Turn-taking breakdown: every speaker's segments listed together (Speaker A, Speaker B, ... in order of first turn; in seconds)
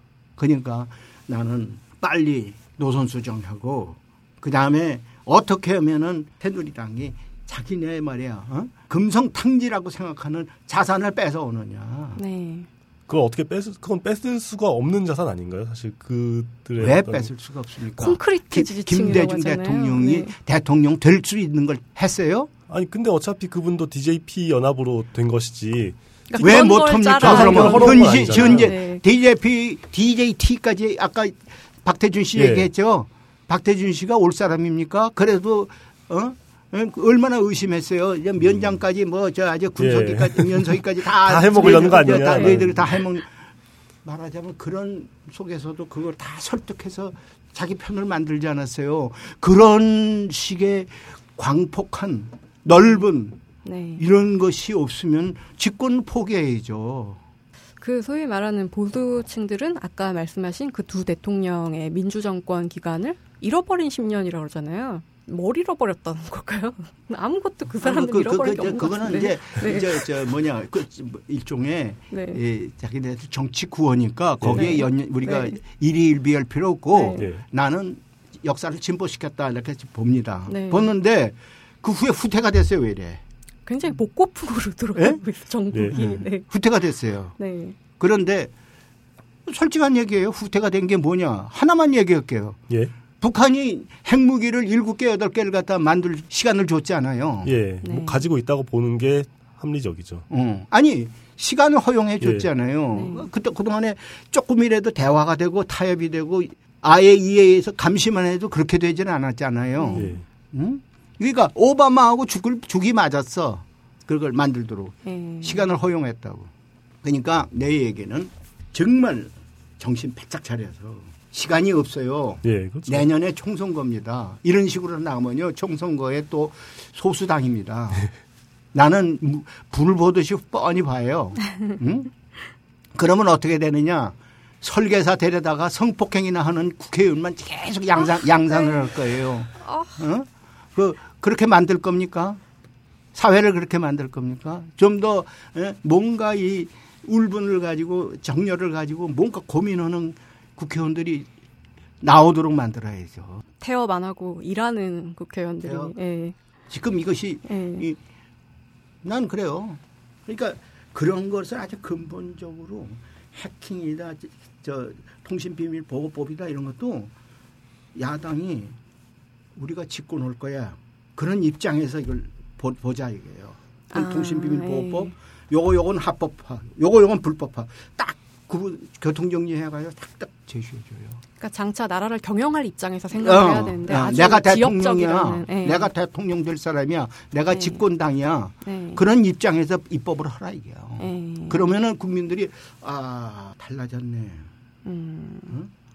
Speaker A: 0.4-12.2, 16.8-22.5, 26.4-43.3, 44.0-53.4, 54.0-57.2, 67.8-83.2, 85.9-87.4, 88.0-88.5, 89.5-92.6, 93.2-97.5, 100.3-116.5, 117.0-128.1, 128.7-132.1, 132.9-142.4, 143.1-151.3, 152.0-153.4, 155.6-155.9, 156.7-158.0, 159.0-167.1, 167.9-168.8, 169.6-181.2, 183.2-194.5
Speaker B: 12.2-12.7, 18.0-20.3, 26.3-29.0, 41.6-42.6, 53.6-54.0, 57.8-70.1, 72.1-72.4, 74.5-75.6, 76.9-77.2, 80.5-80.9, 83.7-86.5, 87.4-87.8, 97.8-98.2, 102.9-103.3, 109.8-110.2, 115.0-115.7, 139.6-139.9, 153.6-156.3, 157.5-157.9, 173.9-175.1, 181.4-185.9, 187.5-187.8, 188.6-189.0, 191.0-191.7, 194.8-195.6
Speaker C: 13.1-17.3, 22.7-28.7, 32.4-32.7, 38.4-38.8, 39.8-42.9, 74.4-74.7, 77.2-77.4, 97.4-100.2, 102.2-102.5, 109.9-110.2, 122.5-123.1